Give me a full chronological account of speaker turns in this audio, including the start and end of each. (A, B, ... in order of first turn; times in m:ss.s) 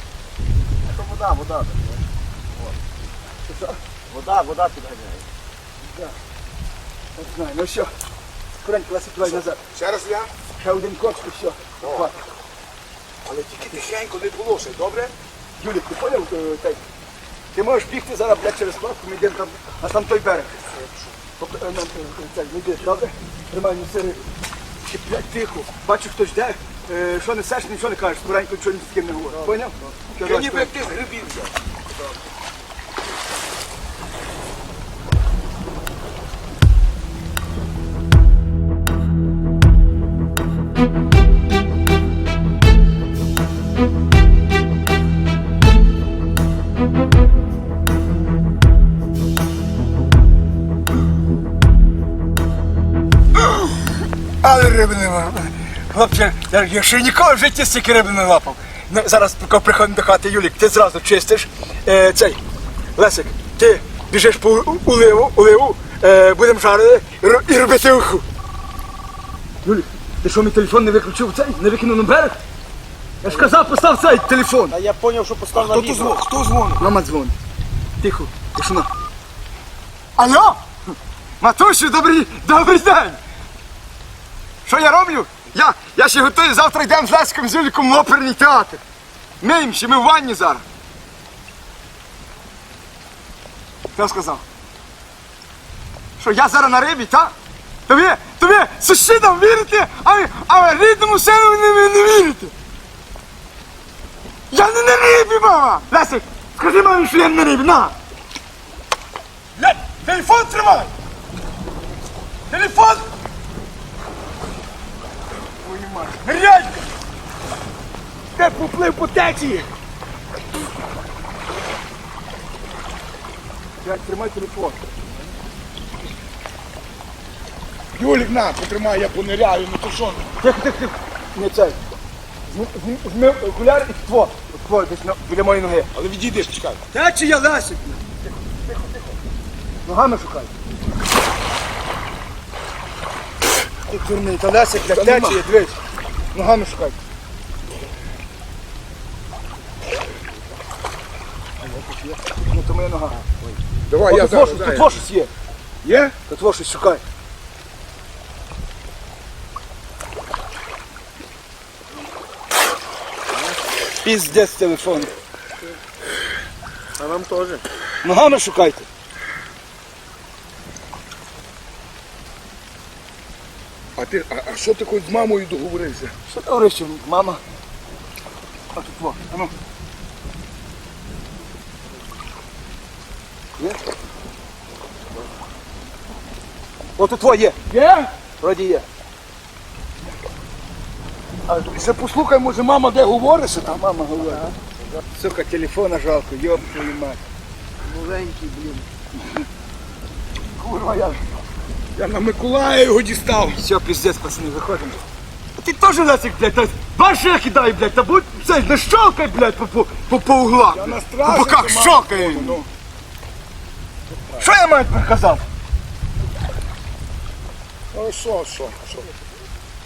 0:00.8-0:02.0 A
0:03.4-0:03.8 B
0:04.1-0:05.2 A
0:05.8-0:06.1 B
0:07.2-0:07.9 B
0:08.6-0:09.6 B
0:09.3-0:10.3 C
0:10.6-0:12.2 B
0:11.8-0:12.1 C
0:13.2-0:15.1 C
0:15.6-0:16.8 B
0:17.5-0:20.5 B
0:21.4-0:24.2 B
0:24.8-0:30.7 B
0:29.3-0:30.0 A
0:30.2-0:32.1 C
0:54.4-1:02.4 B
1:03.0-1:08.2 B
1:09.6-1:12.4 B
1:13.2-1:14.7 B
1:14.7-1:16.2 A
1:15.5-1:16.9 C
1:16.8-1:17.4 B
1:18.0-1:18.9 B
1:20.2-1:20.6 B
1:21.4-1:23.2 B
1:24.6-1:28.8 B
1:29.4-1:30.6 B
1:33.9-1:34.4 B
1:36.2-1:37.3 B
1:37.9-1:42.5 B
1:44.5-1:47.9 B
1:49.6-1:50.9 C
1:52.5-1:52.9 C
1:52.6-1:53.0 B
1:55.6-1:56.9 B
1:58.4-1:59.7 C
2:03.8-2:04.8 B
2:07.9-2:10.3 C
2:10.4-2:11.8 B
2:12.5-2:15.9 B
2:15.9-2:16.8 C
2:16.9-2:19.1 B
2:19.8-2:20.5 B
2:23.9-2:25.5 B
2:24.9-2:25.8 C
2:26.3-2:27.0 B
2:31.6-2:33.5 B
2:33.9-2:35.0 C
2:34.1-2:35.3 B
2:35.8-2:36.1 C
2:36.2-2:37.0 B
2:44.0-2:45.1 B
2:47.0-2:47.6 A
2:48.0-2:48.9 B
2:54.0-2:56.1 C
2:56.3-2:57.4 B
2:58.7-2:59.5 B
3:07.0-3:08.8 B
3:07.7-3:08.1 C
3:11.5-3:13.8 C
3:13.7-3:14.4 B
3:14.3-3:14.5 A
3:15.1-3:17.2 B
3:17.8-3:18.8 A
3:20.6-3:21.2 B
3:22.0-3:23.6 C
3:23.6-3:25.0 B
3:25.6-3:32.6 B
3:30.7-3:32.7 C
3:34.4-3:35.4 B
3:37.9-3:39.1 C